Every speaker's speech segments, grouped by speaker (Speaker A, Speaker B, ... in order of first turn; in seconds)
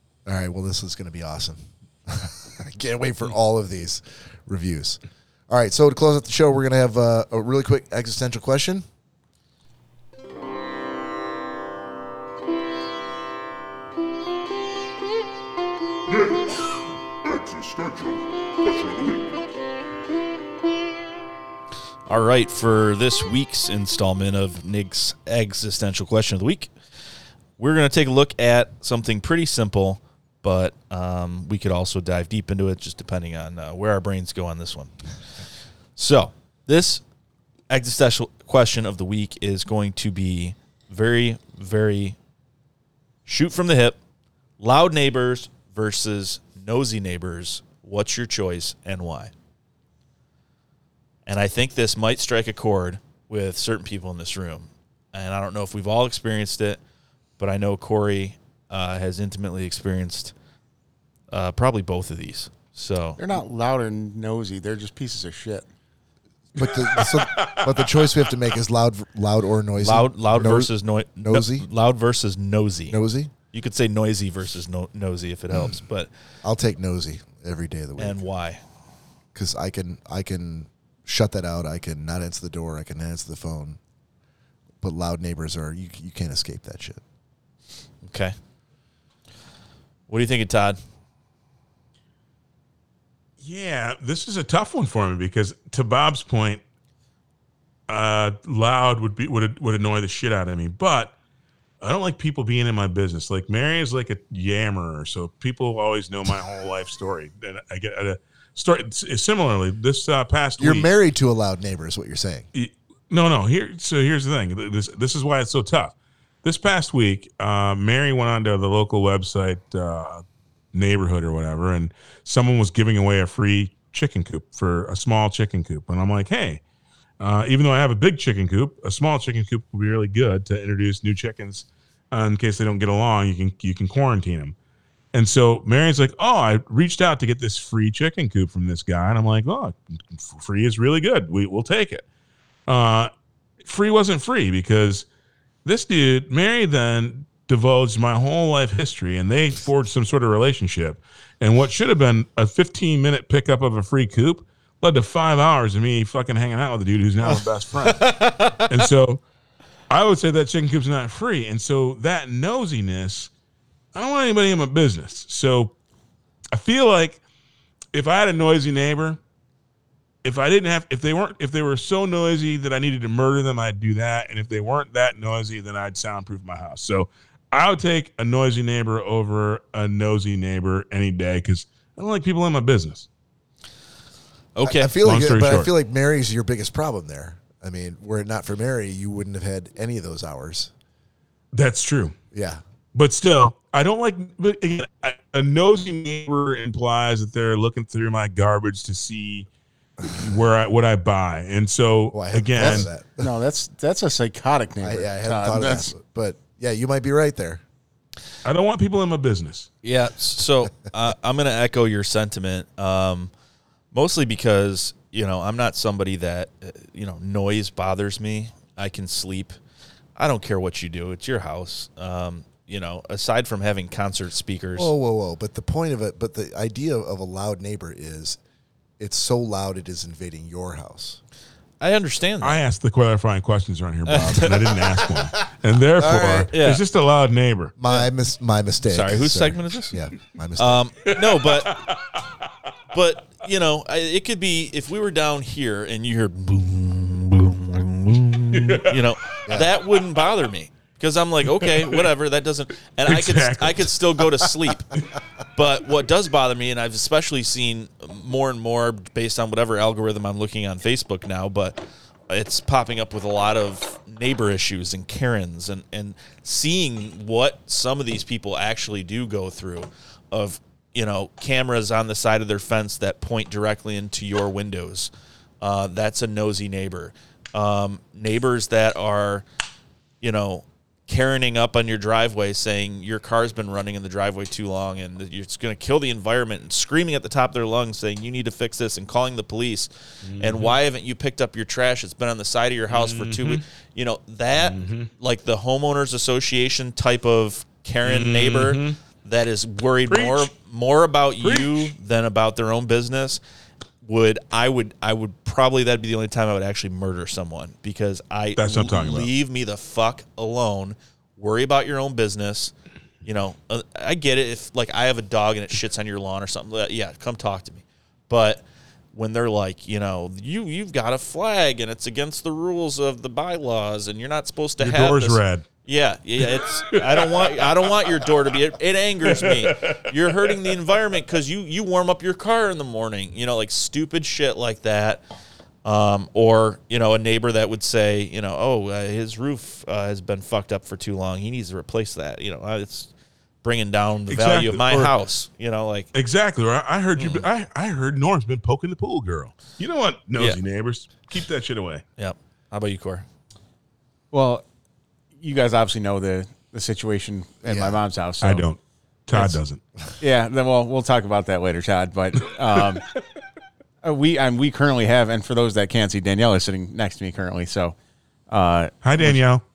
Speaker A: 0.3-8.8, 66.5-71.7, 72.9-73.3, 76.4-78.2, 79.3-83.8, 84.8-87.0, 110.6-112.5, 184.6-190.7, 192.3-192.6, 202.1-203.3, 204.8-207.6, 224.8-228.4, 229.0-231.2, 234.2-235.4, 236.0-236.5, 237.8-240.8, 357.6-358.0
Speaker B: 22.1-26.7, 27.6-35.0, 36.0-37.0, 37.7-42.2, 43.3-44.0, 44.6-49.3, 51.3-56.8, 57.4-60.3, 61.3-63.2, 69.8-73.0, 73.5-76.1, 78.0-78.6, 88.0-88.3, 90.1-90.8, 158.1-158.6, 184.6-185.0, 209.8-213.3, 213.9-219.6, 220.2-224.9, 231.8-232.6, 234.1-234.7, 236.5-236.8, 238.8-239.9, 240.6-241.8, 242.9-255.0, 255.5-279.4, 280.2-303.4, 304.0-312.7, 313.2-335.2, 335.8-343.1, 343.6-346.1, 347.2-347.4, 352.2-353.3
Speaker C: 63.2-65.7, 203.2-205.9, 354.3-354.6, 355.4-358.7, 359.3-359.6, 360.2-363.1, 364.0-367.9, 368.5-369.4
Speaker D: 66.6-68.2, 93.4-96.6, 97.9-101.1, 101.8-110.9, 112.5-120.2, 120.7-126.6, 127.2-134.6, 135.1-142.1, 142.7-143.1, 143.6-145.1, 145.7-159.2, 159.9-163.3, 163.9-165.8, 166.5-167.2, 167.9-169.2, 170.2-183.1, 185.0-185.7, 191.5-192.2, 192.9-199.5, 200.1-202.9, 208.4-209.7, 232.4-237.8, 241.1-242.2, 248.5-249.0, 251.6-252.1, 253.1-254.5, 290.2-290.8, 292.9-293.6, 294.6-295.1, 298.0-299.0, 300.1-300.5, 301.4-301.9, 308.6-309.3, 324.8-325.7, 326.4-328.3, 329.3-330.6, 344.3-345.1, 346.1-352.0, 358.4-359.8, 369.0-369.6